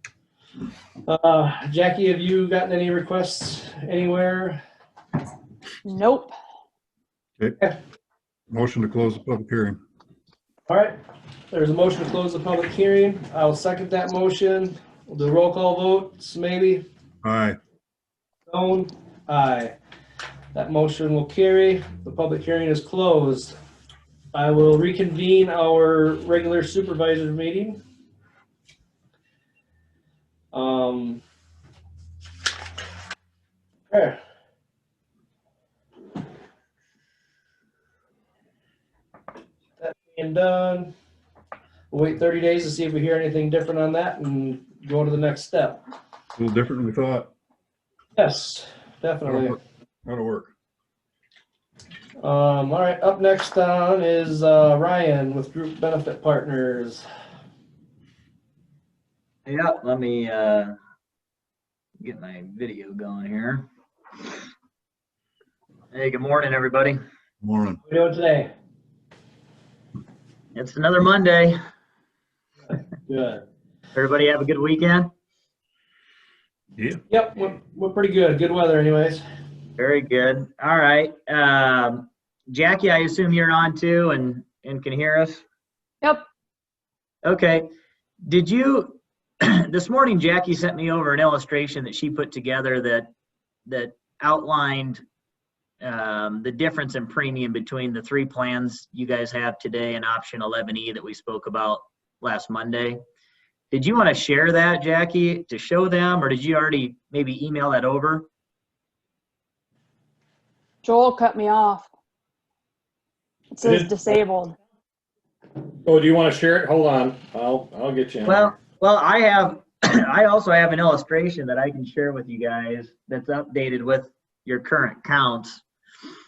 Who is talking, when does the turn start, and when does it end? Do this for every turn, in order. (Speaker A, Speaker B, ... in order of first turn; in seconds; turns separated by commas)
Speaker A: 1.0-4.6, Speaker B: 5.8-6.3, Speaker C: 8.5-9.8, Speaker A: 10.7-10.9, Speaker A: 11.5-16.8, Speaker C: 17.2-17.6, Speaker A: 18.5-19.8, Speaker A: 20.5-23.6, Speaker A: 24.3-27.8, Speaker A: 30.5-31.2, Speaker A: 33.9-34.2, Speaker A: 39.8-40.9, Speaker A: 41.9-45.8, Speaker C: 46.4-47.3, Speaker A: 48.1-49.6, Speaker C: 49.2-50.5, Speaker A: 52.2-57.0, Speaker D: 59.5-60.7, Speaker D: 62.0-63.7, Speaker D: 65.9-67.0, Speaker C: 67.4-67.8, Speaker A: 67.8-68.5, Speaker D: 70.5-71.6, Speaker A: 72.7-73.4, Speaker D: 73.9-75.1, Speaker A: 77.1-79.2, Speaker D: 79.8-85.4, Speaker D: 87.2-87.7, Speaker D: 88.2-93.1, Speaker D: 93.7-95.0, Speaker D: 95.8-103.0, Speaker D: 103.7-108.3, Speaker B: 110.8-111.9, Speaker B: 113.5-114.5, Speaker E: 113.6-114.0, Speaker E: 115.8-118.6, Speaker D: 118.2-125.6